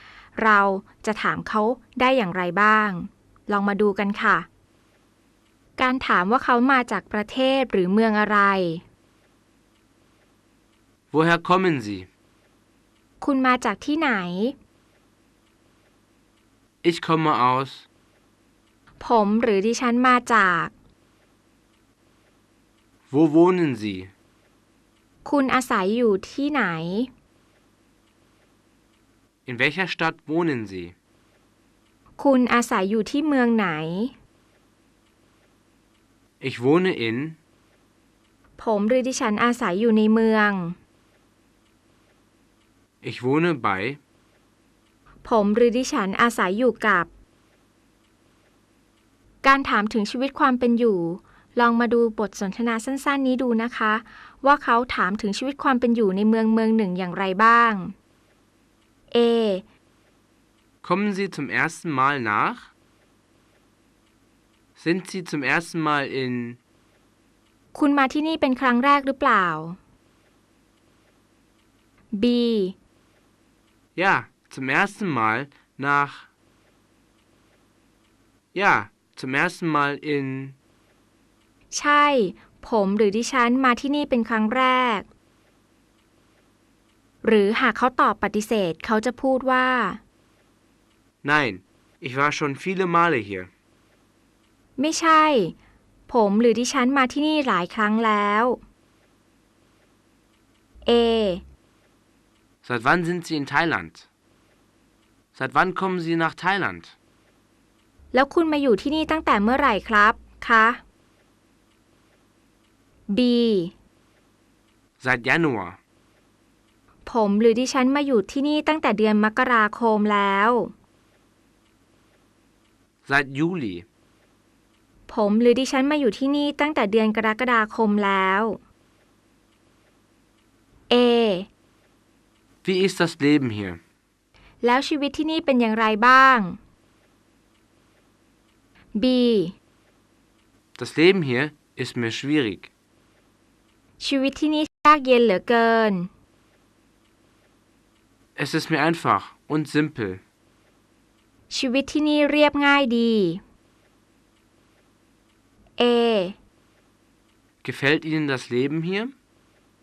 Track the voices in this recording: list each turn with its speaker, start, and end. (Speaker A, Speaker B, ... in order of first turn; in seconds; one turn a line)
Speaker A: 0.3-4.5
Speaker A: 5.8-8.8
Speaker B: 11.1-12.1
Speaker A: 13.2-14.6
Speaker B: 16.8-17.8
Speaker A: 19.0-20.7
Speaker B: 23.1-24.1
Speaker A: 25.2-27.1
Speaker B: 29.4-30.9
Speaker A: 32.2-34.1
Speaker B: 36.4-37.4
Speaker A: 38.6-40.8
Speaker B: 43.0-44.0
Speaker A: 45.2-47.1
Speaker A: 49.4-57.9
Speaker A: 59.1-59.6
Speaker B: 60.8-62.7
Speaker B: 64.8-66.6
Speaker A: 67.7-69.8
Speaker A: 72.1-72.8
Speaker B: 74.0-76.2
Speaker B: 78.5-80.5
Speaker A: 81.7-85.1
Speaker A: 87.2-90.0
Speaker B: 91.2-93.5
Speaker A: 94.8-95.5
Speaker A: 96.1-98.6
Speaker A: 100.8-101.4
Speaker B: 102.6-104.0
Speaker B: 105.3-106.9
Speaker A: 108.1-110.8
Speaker A: 113.1-113.7
Speaker B: 115.0-115.8
Speaker A: 117.0-120.7
Speaker B: 123.0-123.8
Speaker A: 125.1-128.6
Speaker A: 130.9-131.5
Speaker B: 132.6-133.8
Speaker A: 134.6-136.6
Speaker A: 138.9-139.5
Speaker B: 140.8-142.7
Speaker A: 144.0-146.1
Speaker B: 148.3-150.2
Speaker A: 151.5-153.4
Speaker A: 155.8-156.3
Speaker B: 157.6-159.1